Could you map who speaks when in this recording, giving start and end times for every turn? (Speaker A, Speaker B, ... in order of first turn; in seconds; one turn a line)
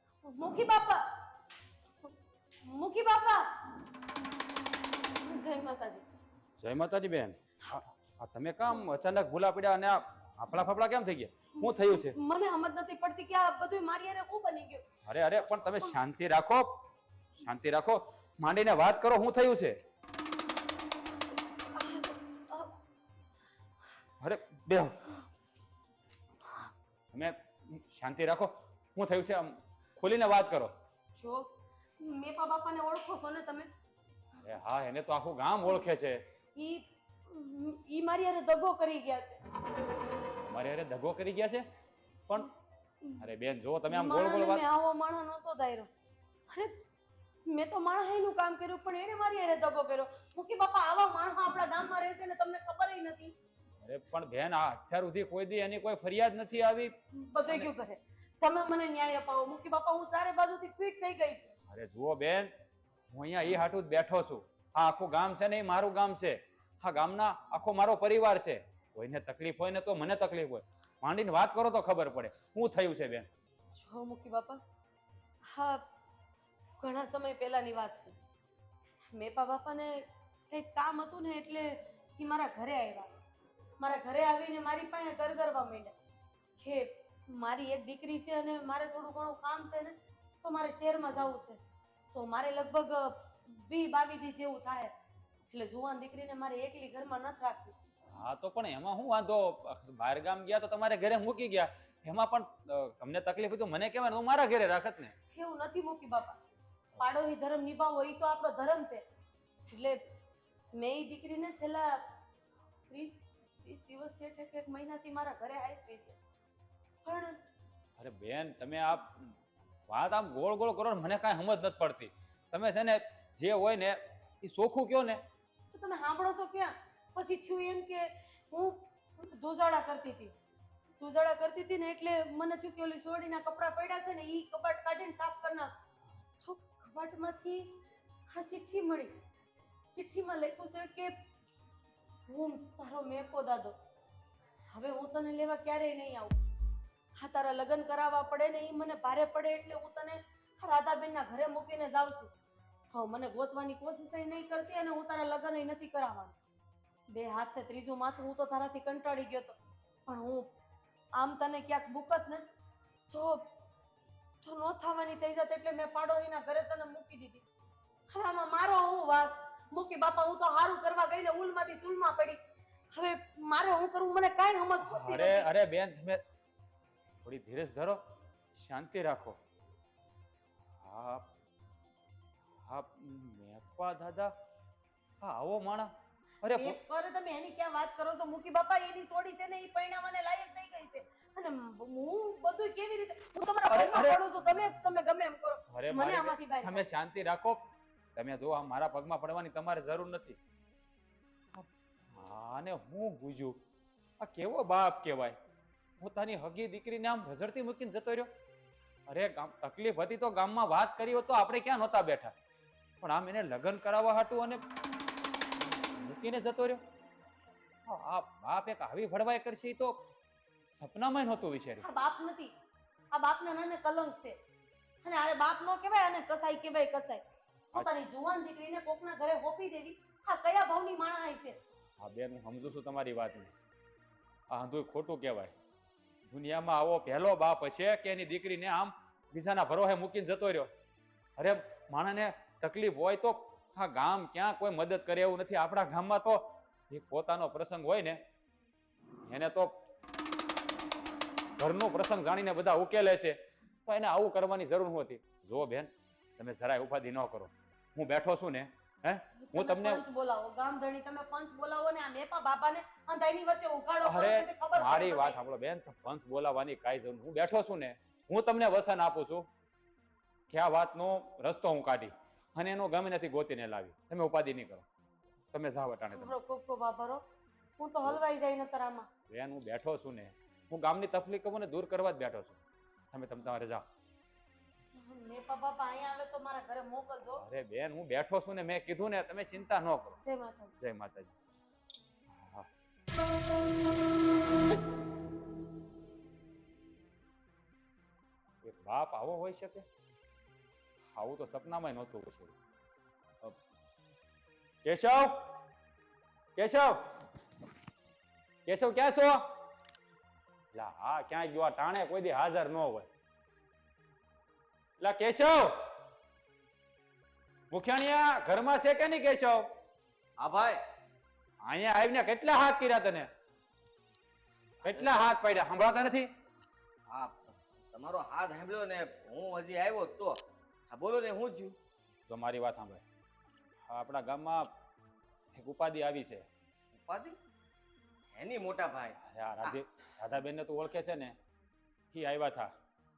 Speaker A: 0.2-1.0
Speaker A: 2.6-3.5
Speaker A: 5.2-6.0
Speaker B: 6.6-12.2
Speaker A: 11.6-14.8
Speaker B: 15.1-16.8
Speaker B: 17.4-19.8
Speaker A: 21.8-22.7
Speaker B: 24.2-25.0
Speaker B: 27.1-30.7
Speaker A: 31.1-31.5
Speaker A: 32.0-33.7
Speaker B: 34.4-36.2
Speaker A: 36.5-39.4
Speaker B: 40.4-41.6
Speaker B: 43.2-44.6
Speaker A: 43.9-45.9
Speaker A: 47.5-53.3
Speaker B: 53.8-56.9
Speaker A: 57.3-61.5
Speaker B: 61.7-62.5
Speaker B: 63.1-73.2
Speaker A: 73.7-74.6
Speaker A: 75.5-75.8
Speaker A: 76.8-78.1
Speaker A: 79.1-83.1
Speaker A: 83.8-85.9
Speaker A: 86.6-91.6
Speaker A: 92.1-94.9
Speaker A: 95.5-97.7
Speaker B: 98.1-105.1
Speaker A: 105.3-106.4
Speaker A: 107.0-109.0
Speaker A: 109.7-110.0
Speaker A: 110.8-112.0
Speaker A: 112.9-116.2
Speaker A: 117.0-117.4
Speaker B: 118.0-119.3
Speaker B: 119.9-125.2
Speaker A: 125.7-130.3
Speaker A: 131.0-135.7
Speaker A: 136.4-137.7
Speaker A: 138.3-139.1
Speaker A: 139.9-141.1
Speaker A: 142.3-143.8
Speaker A: 144.7-146.3
Speaker A: 147.2-152.3
Speaker A: 152.9-156.3
Speaker A: 157.1-160.5
Speaker A: 161.2-162.4
Speaker A: 163.1-163.4
Speaker A: 164.4-167.4
Speaker A: 168.1-172.4
Speaker A: 172.9-175.5
Speaker B: 174.8-176.2
Speaker B: 177.2-178.0
Speaker B: 178.5-179.4
Speaker B: 180.8-181.3
Speaker B: 182.6-184.3
Speaker B: 185.2-185.9
Speaker B: 186.4-186.8
Speaker A: 186.5-196.9
Speaker B: 193.7-194.2
Speaker B: 195.7-197.6
Speaker B: 198.1-200.4
Speaker B: 201.5-203.6
Speaker B: 204.2-205.4
Speaker B: 206.0-208.3
Speaker B: 209.1-212.3
Speaker B: 213.0-214.6
Speaker B: 215.8-216.8
Speaker B: 217.9-220.0
Speaker B: 220.7-221.8
Speaker A: 221.8-222.5
Speaker A: 223.1-224.4
Speaker A: 225.0-231.6
Speaker B: 232.0-233.5
Speaker B: 234.5-235.5
Speaker B: 236.3-240.7
Speaker B: 241.4-248.2
Speaker B: 249.2-249.8
Speaker B: 251.6-260.0
Speaker A: 259.4-265.4
Speaker B: 264.0-269.5
Speaker B: 270.5-274.8
Speaker B: 275.5-276.3
Speaker A: 276.1-277.2
Speaker A: 277.8-279.1
Speaker B: 279.3-282.6
Speaker B: 283.1-283.9
Speaker A: 284.9-287.4
Speaker B: 287.4-290.2
Speaker A: 290.2-290.7
Speaker B: 290.8-291.3
Speaker B: 292.3-292.7
Speaker B: 298.6-299.9
Speaker B: 301.1-302.5
Speaker B: 304.8-305.6
Speaker B: 306.6-307.0
Speaker B: 308.6-309.5
Speaker B: 310.7-313.1
Speaker B: 315.0-315.9
Speaker B: 317.7-319.7
Speaker C: 320.4-320.8
Speaker B: 321.6-323.3
Speaker B: 324.8-326.3
Speaker C: 327.1-331.8
Speaker B: 332.3-333.0
Speaker B: 333.9-334.7
Speaker B: 335.5-336.5
Speaker C: 337.0-337.4
Speaker C: 338.3-339.8
Speaker B: 339.2-341.3
Speaker B: 342.1-342.7